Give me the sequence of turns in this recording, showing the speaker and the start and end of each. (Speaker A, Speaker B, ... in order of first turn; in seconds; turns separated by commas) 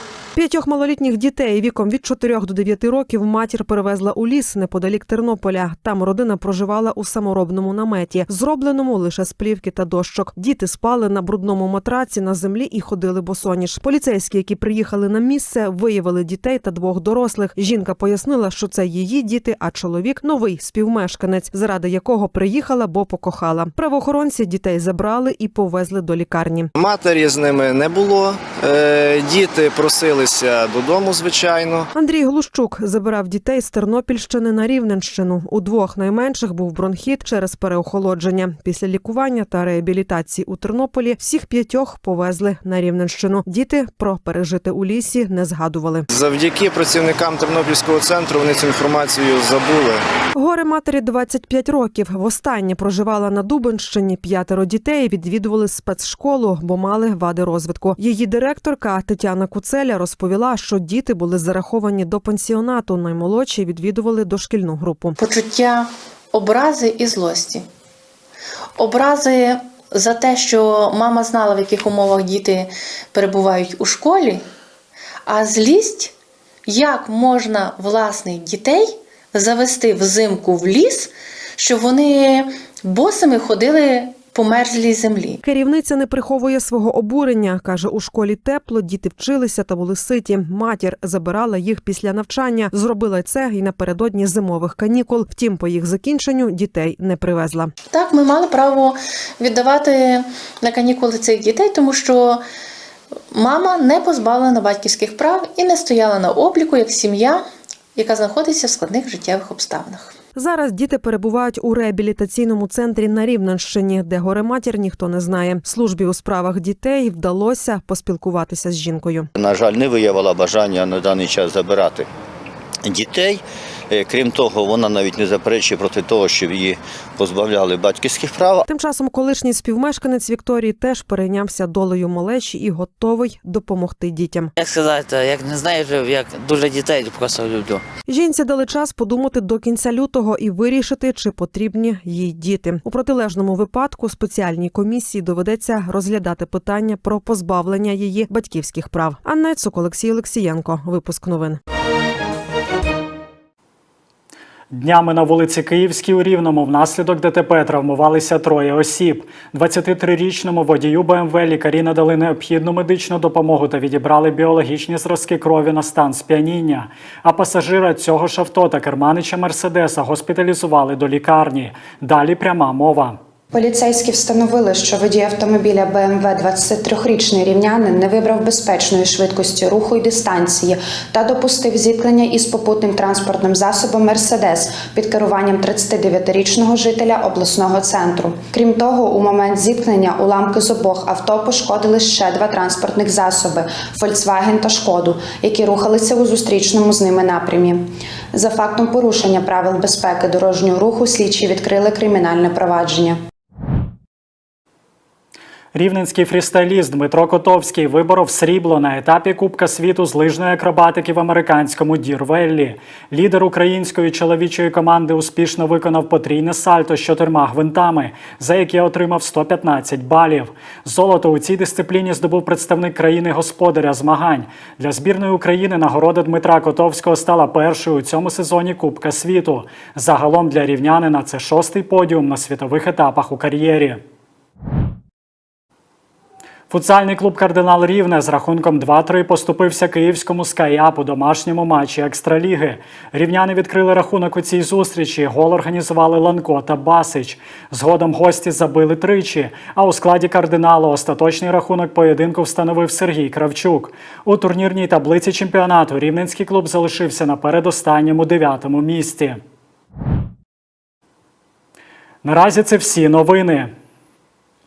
Speaker A: 0.3-26.7, Speaker B: 26.8-31.9, Speaker A: 31.9-46.0, Speaker B: 46.1-50.0, Speaker A: 50.3-65.2, Speaker C: 65.2-67.7, Speaker C: 68.8-74.4, Speaker C: 75.3-76.1, Speaker C: 76.7-85.4, Speaker A: 85.4-97.7, Speaker C: 97.9-102.4, Speaker C: 103.3-107.4, Speaker C: 108.0-110.1, Speaker A: 110.3-119.3, Speaker D: 119.3-122.1, Speaker D: 122.8-128.6, Speaker A: 128.7-134.5, Speaker E: 134.6-137.8, Speaker A: 138.1-151.6, Speaker F: 154.7-173.2, Speaker G: 173.5-203.2, Speaker F: 205.7-234.0, Speaker F: 236.7-259.4, Speaker F: 262.2-263.7